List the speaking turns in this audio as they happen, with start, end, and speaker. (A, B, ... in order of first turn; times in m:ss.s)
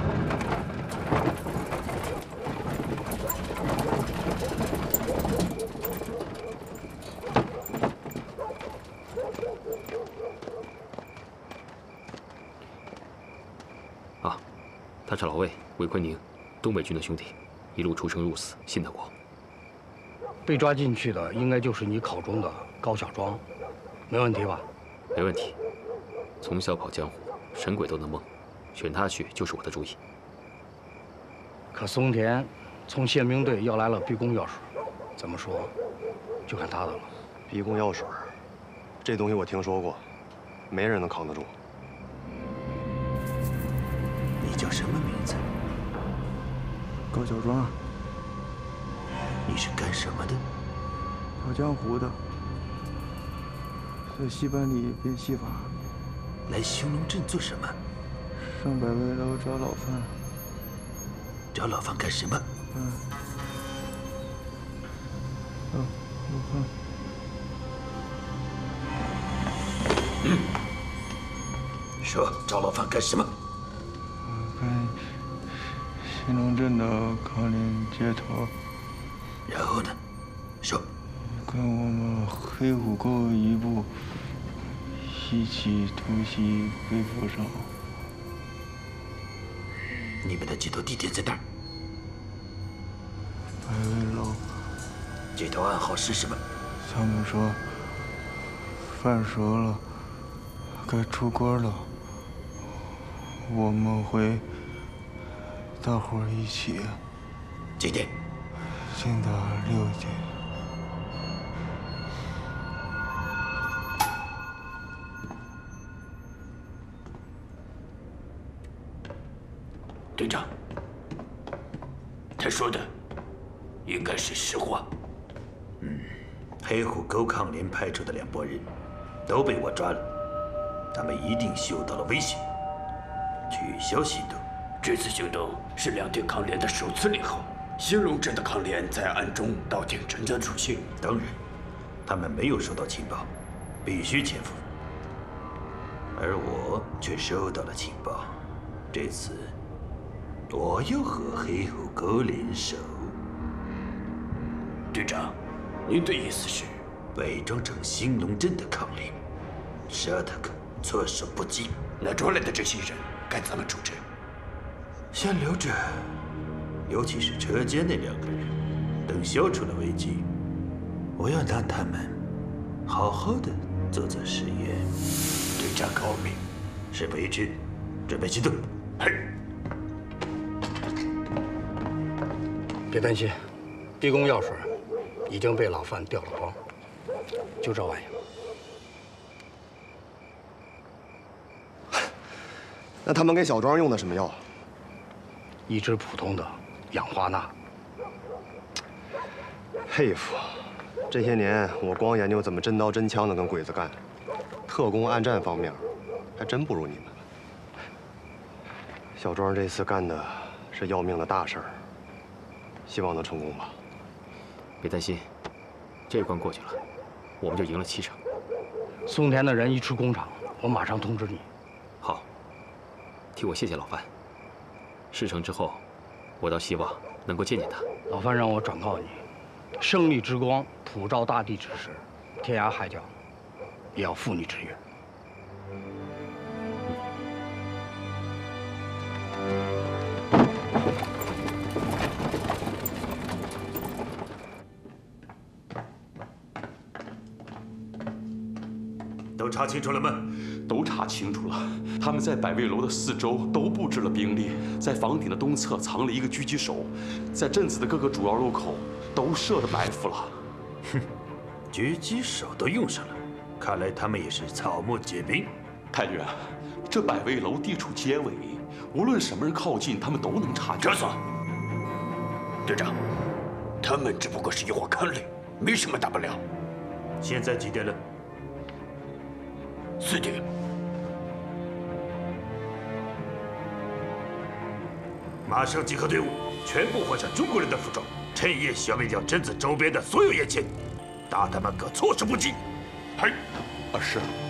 0:15.0-0:19.1 A
0:20.4-0:23.4 B
0:24.1-0:24.6 B
0:25.1-0:25.6 A
0:26.4-0:30.0 A
0:31.7-0:35.7 B
0:36.5-0:37.1 B
0:37.5-0:38.3 C
0:39.0-0:40.1 C
0:40.7-0:41.6 C
0:44.4-0:45.4 D
0:47.1-0:47.8 E
0:49.4-0:50.4 D
0:51.4-0:52.2 E
0:54.1-0:55.7 E
0:56.5-0:57.8 D
0:58.4-1:00.1 E
1:01.5-1:02.5 D
1:02.7-1:03.0 E
1:05.7-1:06.7 E
1:12.0-1:13.3 D
1:14.2-1:15.1 E
1:16.0-1:18.5 E
1:19.5-1:20.0 D
1:21.3-1:24.0 E
1:25.0-1:27.7 E
1:30.2-1:31.4 D
1:33.6-1:34.5 E
1:35.3-1:36.4 D
1:36.8-1:37.6 E
1:38.9-1:39.8 E
1:40.8-1:41.9 E
1:43.4-1:44.4 E
1:45.8-1:47.0 E
1:47.8-1:48.1 D
1:48.9-1:50.3 E
2:00.2-2:00.5 F
2:02.4-2:02.9 F
2:03.8-2:04.9 F
2:05.8-2:08.7 D
2:09.3-2:10.1 D
2:10.9-2:12.4 D
2:13.5-2:14.4 D
2:14.8-2:20.9 F
2:21.0-2:21.4 D
2:22.0-2:23.3 D
2:23.8-2:24.6 D
2:26.1-2:28.4 D
2:28.9-2:29.5 D
2:30.5-2:33.2 D
2:34.9-2:36.8 F
2:37.1-2:39.2 D
2:39.9-2:41.8 D
2:42.0-2:44.0 F
2:45.1-2:46.2 D
2:46.9-2:48.5 D
2:49.0-2:50.3 D
2:51.2-2:52.2 D
2:52.8-2:54.9 D
2:55.6-2:56.4 F
2:56.9-2:58.7 D
3:02.9-3:03.4 B
3:04.0-3:04.7 B
3:05.3-3:06.6 B
3:07.6-3:08.1 B
3:13.0-3:14.4 C
3:15.7-3:17.5 B
3:19.9-3:24.0 C
3:24.7-3:27.2 C
3:29.2-3:31.8 C
3:32.9-3:33.8 C
3:34.8-3:35.3 A
3:36.1-3:36.8 A
3:37.4-3:38.2 A
3:39.0-3:41.5 B
3:42.0-3:42.2 A
3:43.3-3:44.1 A
3:45.1-3:45.8 A
3:46.4-3:47.9 A
3:48.1-3:49.2 B
3:49.8-3:53.1 B
3:53.9-3:54.8 B
4:09.4-4:10.3 D
4:10.6-4:20.4 G
4:21.7-4:25.5 D
4:25.9-4:30.9 G
4:30.8-4:31.2 F
4:32.6-4:33.0 F
4:33.8-4:36.4 F
4:37.2-4:38.0 D
4:40.0-4:40.4 F
4:45.4-4:50.8 D
4:51.3-4:52.6 D
4:53.9-4:54.3 G